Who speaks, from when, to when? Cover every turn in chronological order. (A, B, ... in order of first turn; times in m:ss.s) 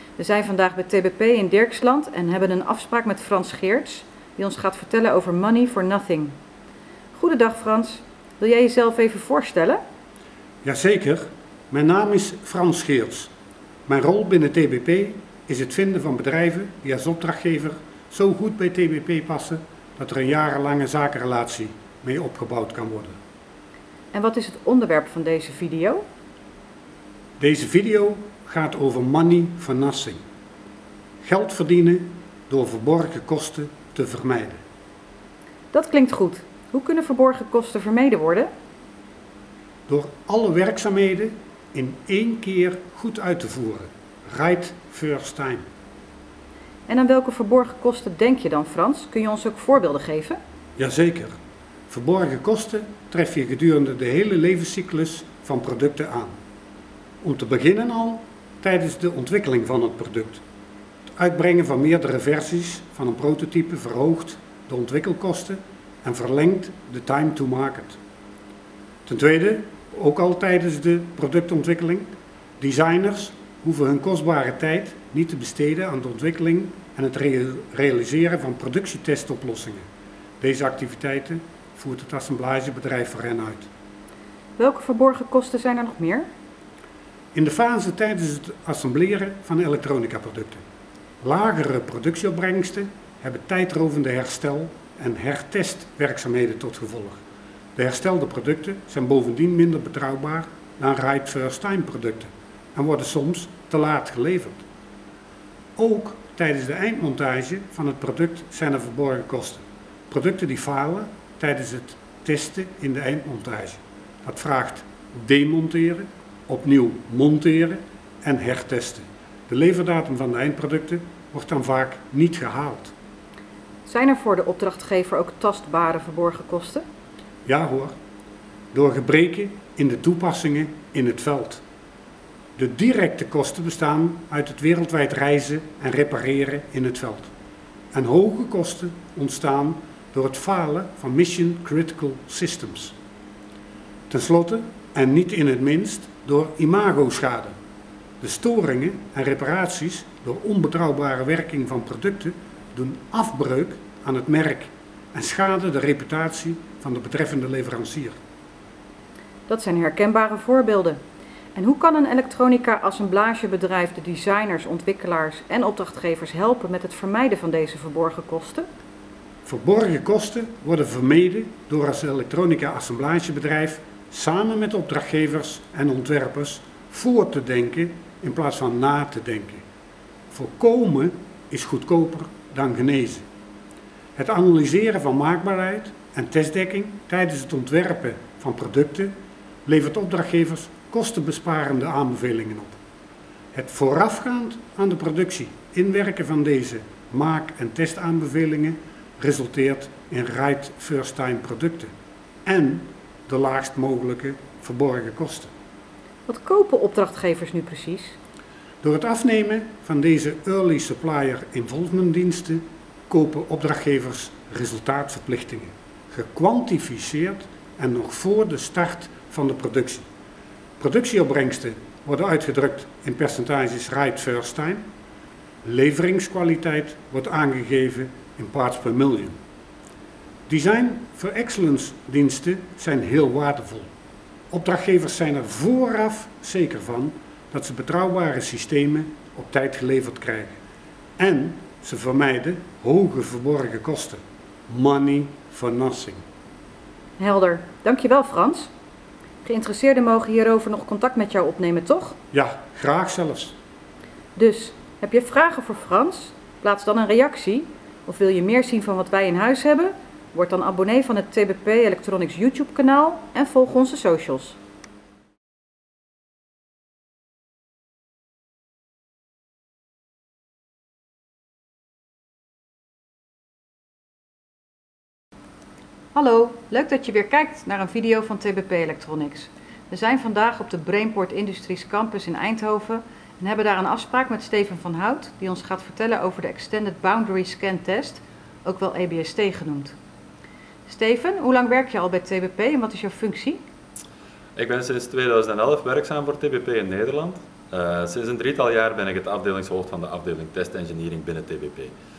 0:00.2-0:06.4 A
0:07.1-0:09.8 A
0:10.6-0:13.3 B
0:13.9-0:23.2 B
0:24.1-0:26.0 A
0:27.4-0:30.2 B
0:31.2-0:34.6 B
0:35.7-0:38.5 A
0:39.9-0:45.6 B
0:46.9-0:50.4 A
0:50.8-0:51.4 B
0:51.9-0:56.4 B
0:57.2-1:00.4 B
1:01.2-1:08.0 B
1:09.1-1:19.8 B
1:20.4-1:23.7 B
1:24.6-1:26.3 A
1:27.3-1:30.6 B
1:31.2-1:37.2 B
1:37.8-1:44.6 B
1:45.8-2:02.9 B
2:03.8-2:06.8 A
2:07.5-2:08.0 B
2:08.7-2:11.6 B
2:12.6-2:17.3 B
2:17.9-2:23.0 B
2:24.1-2:27.6 B
2:28.2-2:38.2 B
2:39.5-2:41.0 A
2:41.6-2:48.7 A
2:49.4-2:59.6 B
3:00.3-3:03.2 B
3:04.2-3:09.1 B
3:09.7-3:12.8 B
3:13.5-3:21.9 B
3:22.4-3:25.5 B
3:26.3-3:28.2 A
3:28.8-3:40.1 B
3:40.8-3:44.9 B
3:45.6-3:49.4 B
3:50.5-3:53.9 B
3:54.5-4:00.6 B
4:01.2-4:06.2 B
4:07.2-4:08.7 A
4:09.4-4:12.2 A
4:12.3-4:13.6 B
4:14.4-4:24.6 A
4:36.1-4:50.0 A
4:50.9-4:53.6 A
4:54.6-5:01.9 C